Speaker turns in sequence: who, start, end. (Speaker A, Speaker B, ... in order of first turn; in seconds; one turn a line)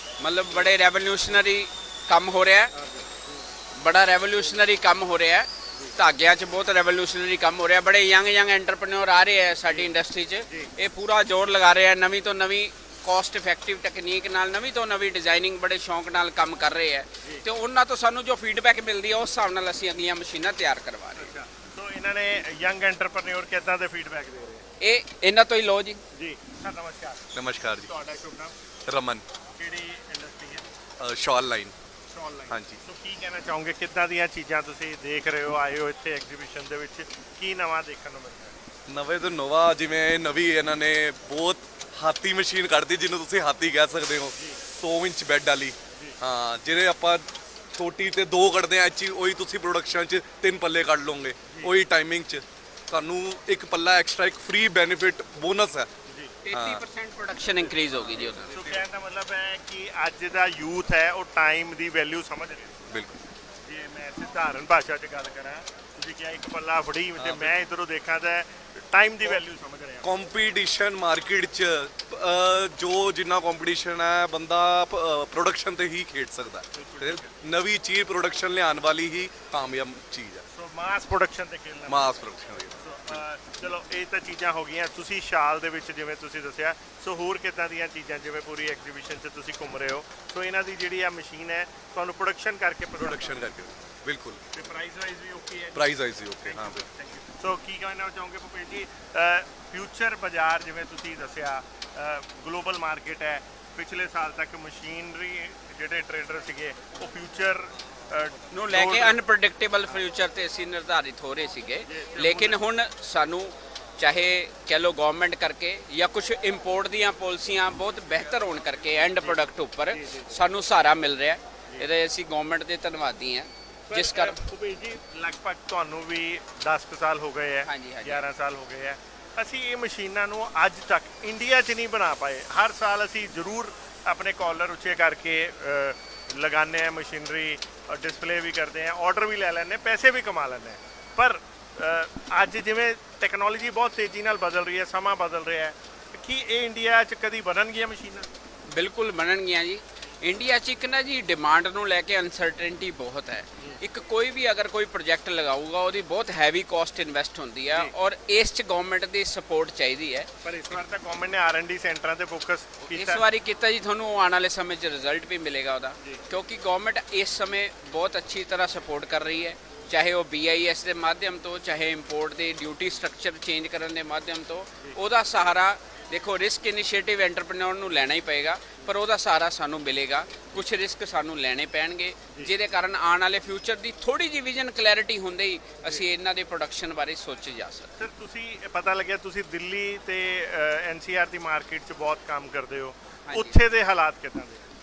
Speaker A: 0.2-2.7
Speaker B: 2.7-3.4
Speaker A: 3.8-21.3
Speaker B: 21.1-24.6
Speaker A: 24.8-26.0
Speaker B: 26.1-28.5
Speaker C: 27.3-27.9
Speaker C: 28.9-29.2
Speaker B: 29.6-30.6
Speaker C: 31.0-31.7
Speaker B: 32.1-38.5
Speaker C: 32.5-32.8
Speaker C: 38.9-55.9
Speaker B: 44.4-44.6
Speaker B: 45.9-46.2
Speaker B: 51.5-51.7
Speaker B: 56.1-56.3
Speaker A: 56.4-58.7
Speaker C: 56.5-56.8
Speaker B: 58.4-62.8
Speaker C: 62.9-63.2
Speaker B: 63.6-70.1
Speaker C: 67.2-67.6
Speaker C: 70.0-80.4
Speaker B: 76.7-77.3
Speaker B: 80.5-93.5
Speaker C: 81.9-83.2
Speaker C: 93.0-94.4
Speaker B: 94.5-109.2
Speaker C: 95.7-96.8
Speaker A: 108.5-124.4
Speaker B: 111.8-112.6
Speaker B: 119.9-120.3
Speaker B: 123.9-148.3
Speaker A: 127.7-128.2
Speaker A: 148.7-160.8
Speaker B: 160.4-163.2
Speaker A: 162.9-187.9
Speaker B: 188.0-194.6
Speaker A: 193.3-193.6